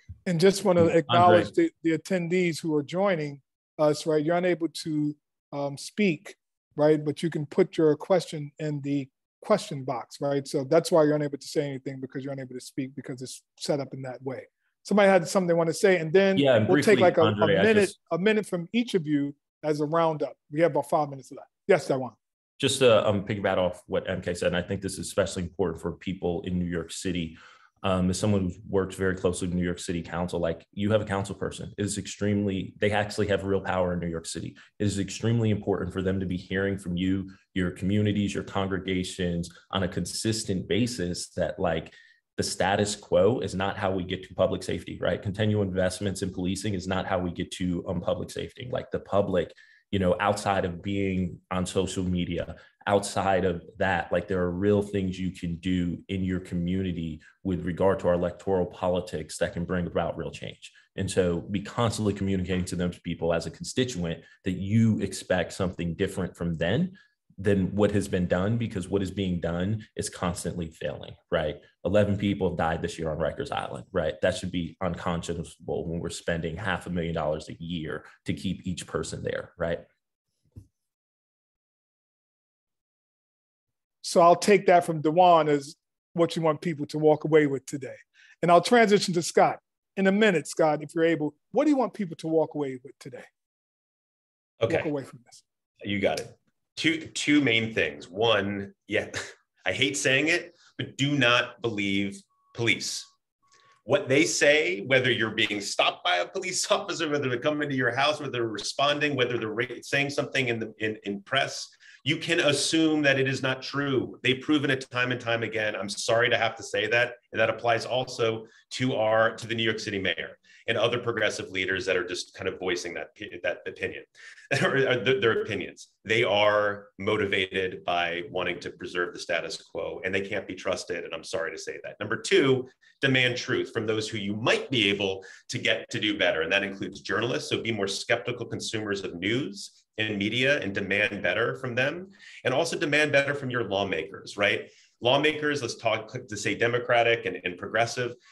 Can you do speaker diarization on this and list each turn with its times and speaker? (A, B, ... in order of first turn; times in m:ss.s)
0:00.3-0:22.2 A
0:01.0-0:01.5 B
0:16.4-0:18.0 B
0:22.6-1:19.8 B
1:24.0-1:33.3 A
1:34.6-1:34.9 C
1:34.7-1:35.4 A
1:35.8-1:43.1 C
1:43.8-2:28.2 C